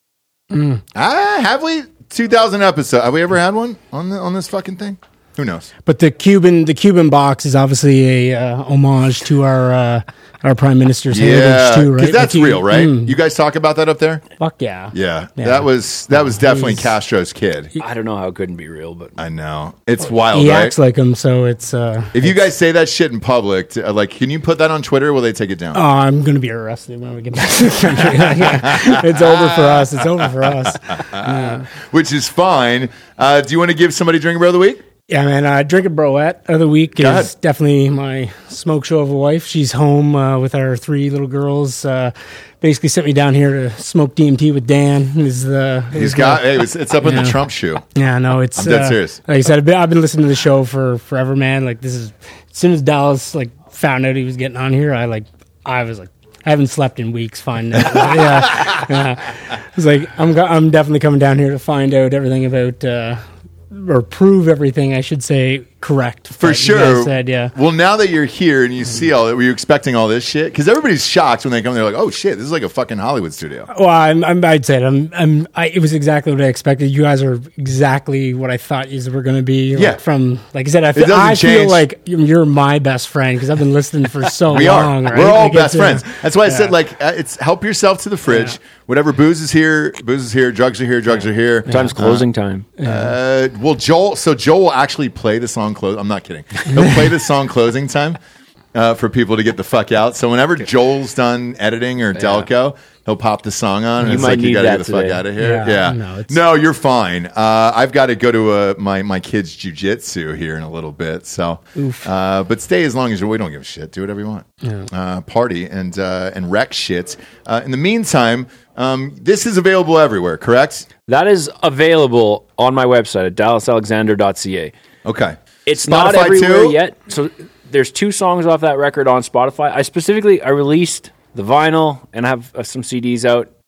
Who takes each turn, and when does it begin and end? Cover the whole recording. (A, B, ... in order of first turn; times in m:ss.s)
0:00.5-0:00.8 A
0:01.0-0:05.7 B
0:05.8-0:13.2 A
0:11.1-0:14.2 B
0:14.4-0:17.0 A
0:14.9-0:17.7 B
0:17.8-0:19.2 C
0:19.2-0:20.8 B
0:20.2-0:22.4 A
0:22.2-0:25.8 B
0:25.7-0:31.7 A
0:28.2-0:34.8 B
0:35.1-1:07.5 A
0:37.0-0:37.3 B
0:45.9-0:47.8 B
0:48.6-0:49.2 B
0:58.0-0:58.8 B
1:06.3-1:13.7 B
1:13.7-1:26.7 A
1:19.7-1:20.0 B
1:21.0-1:21.8 B
1:24.5-1:32.3 B
1:28.3-1:28.6 A
1:31.7-1:32.0 A
1:31.7-1:32.7 C
1:32.8-1:33.2 A
1:32.8-1:38.2 B
1:36.7-1:37.1 A
1:38.7-2:00.9 B
1:42.1-1:42.5 C
1:44.0-1:45.2 C
1:45.4-1:46.4 A
1:51.8-1:52.1 A
2:01.1-2:04.7 C
2:05.0-2:06.8 B
2:05.6-2:13.5 C